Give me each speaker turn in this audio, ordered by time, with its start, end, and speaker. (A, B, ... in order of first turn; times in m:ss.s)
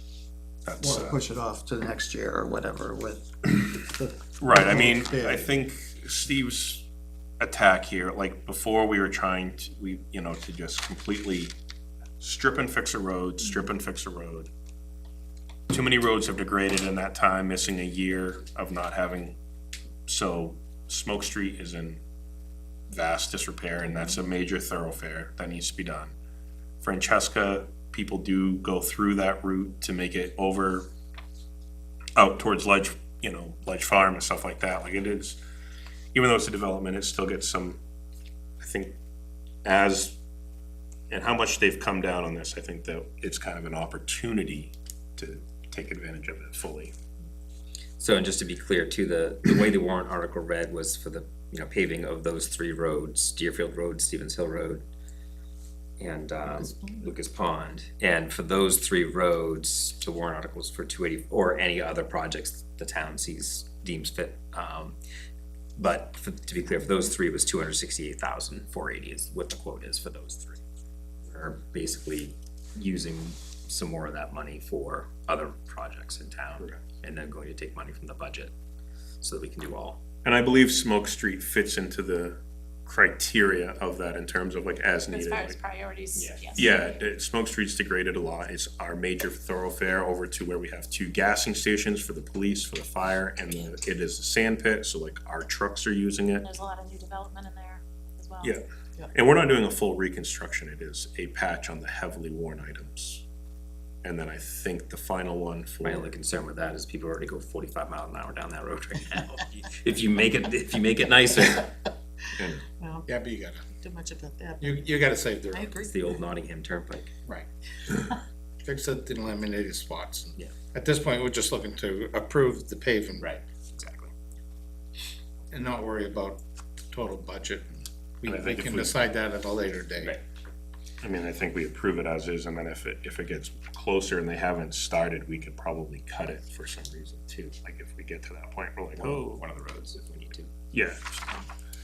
0:00.6-0:01.2 A
0:00.8-0:05.5 B
0:04.4-0:06.8 A
0:07.4-0:11.5 A
0:12.2-0:14.5 A
0:15.7-0:19.4 A
0:20.1-0:22.0 A
0:22.9-0:26.1 A
0:26.8-0:30.9 A
0:32.2-0:35.4 A
0:36.1-0:37.8 A
0:38.6-0:39.0 A
0:39.6-0:40.2 A
0:41.1-0:46.9 A
0:48.0-0:54.8 C
0:56.0-1:04.9 C
0:56.6-0:57.0 D
1:05.8-1:10.6 C
1:11.3-1:18.5 C
1:16.6-1:16.8 A
1:19.2-1:20.0 C
1:20.2-1:25.6 A
1:25.1-1:26.6 E
1:26.1-1:26.6 C
1:26.5-1:36.5 A
1:36.4-1:38.6 E
1:38.4-1:43.2 A
1:44.0-1:46.1 A
1:45.8-1:51.7 C
1:52.4-1:52.6 A
1:52.7-1:53.2 D
1:53.1-1:53.6 F
1:53.7-1:55.9 D
1:54.6-1:55.7 F
1:55.8-1:57.1 C
1:58.6-2:03.3 F
2:03.2-2:04.1 C
2:05.5-2:06.4 F
2:06.9-2:10.2 F
2:08.2-2:09.0 A
2:11.0-2:19.4 A
2:19.0-2:20.5 C
2:20.7-2:21.4 A